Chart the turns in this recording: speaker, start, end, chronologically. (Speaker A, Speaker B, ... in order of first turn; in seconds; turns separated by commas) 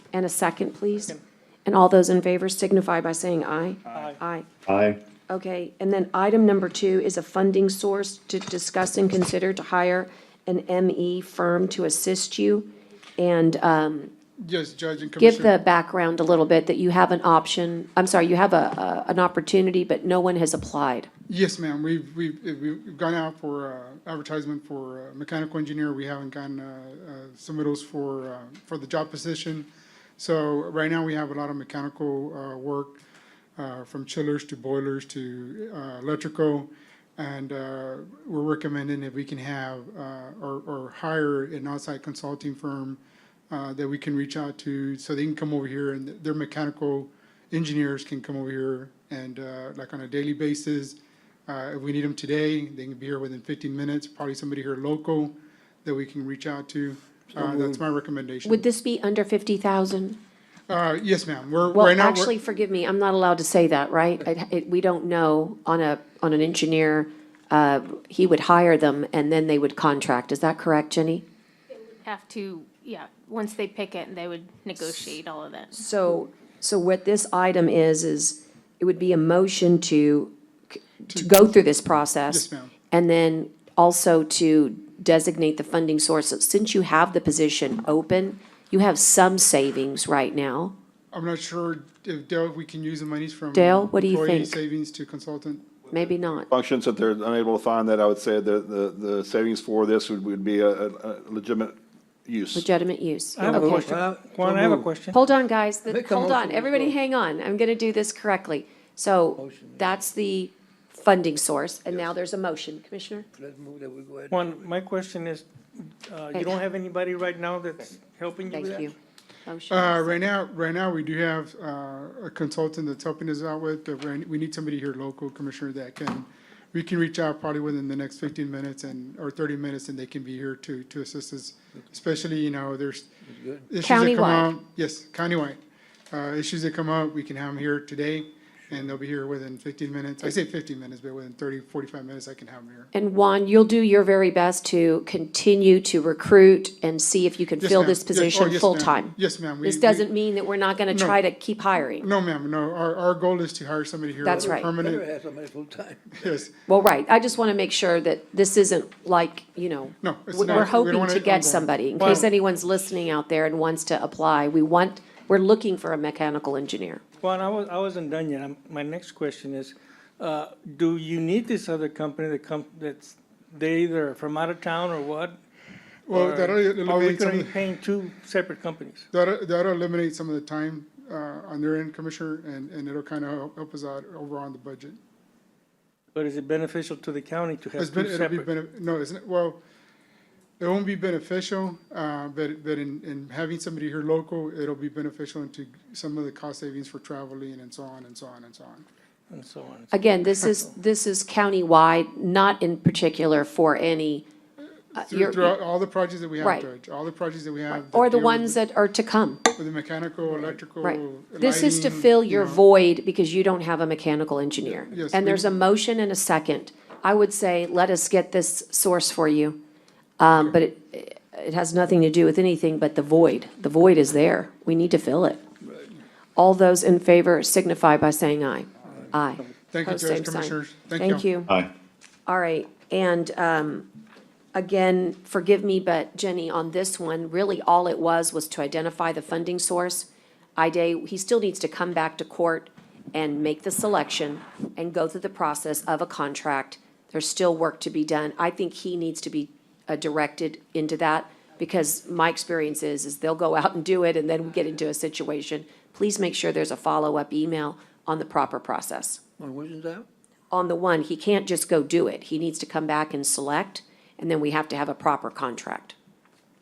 Speaker A: 0.1-1.1, Speaker A: 1.6-4.5, Speaker B: 3.9-4.2, Speaker C: 4.7-5.0, Speaker A: 5.3-14.1, Speaker D: 14.4-15.5, Speaker A: 15.2-21.1, Speaker D: 21.3-29.7, Speaker D: 30.2-33.0, Speaker D: 33.6-55.3, Speaker D: 55.9-58.6, Speaker E: 57.4-57.8, Speaker A: 58.5-60.2, Speaker D: 60.7-62.3, Speaker A: 61.7-71.2, Speaker F: 72.0-75.7, Speaker A: 75.7-80.3, Speaker A: 81.1-90.7, Speaker D: 82.3-82.7, Speaker D: 91.1-95.7, Speaker A: 93.5-94.6, Speaker A: 95.9-96.5, Speaker C: 96.5-102.6, Speaker A: 102.5-103.9, Speaker B: 103.3-105.2, Speaker E: 103.4-104.9, Speaker A: 105.1-113.2, Speaker E: 105.9-107.0, Speaker E: 109.4-110.0, Speaker E: 113.3-114.7, Speaker B: 114.3-118.9, Speaker A: 118.5-118.9, Speaker A: 119.5-120.2, Speaker D: 119.7-133.1, Speaker E: 133.3-133.7, Speaker D: 133.7-135.6, Speaker A: 133.8-134.5, Speaker D: 136.1-142.9, Speaker A: 142.9-152.1, Speaker D: 147.6-150.1, Speaker D: 150.9-151.2, Speaker D: 152.0-155.0, Speaker A: 154.2-154.7, Speaker E: 154.4-156.3, Speaker D: 156.2-156.5, Speaker A: 156.7-167.0, Speaker D: 160.0-162.3, Speaker B: 162.0-162.3, Speaker B: 167.2-175.4, Speaker D: 176.1-177.6, Speaker B: 176.1-179.0, Speaker D: 179.1-185.0, Speaker B: 186.2-188.5, Speaker D: 187.8-189.6, Speaker D: 190.6-198.9, Speaker B: 199.3-200.5, Speaker A: 199.9-204.2, Speaker D: 204.9-208.6, Speaker A: 204.9-205.5, Speaker A: 206.4-206.7, Speaker A: 207.7-209.4, Speaker D: 209.6-212.6, Speaker A: 210.8-219.6, Speaker D: 214.9-215.5, Speaker A: 220.2-225.4, Speaker A: 226.4-231.5, Speaker D: 229.7-231.4, Speaker A: 232.3-233.9, Speaker A: 234.6-259.2, Speaker E: 259.4-260.1, Speaker A: 260.5-265.9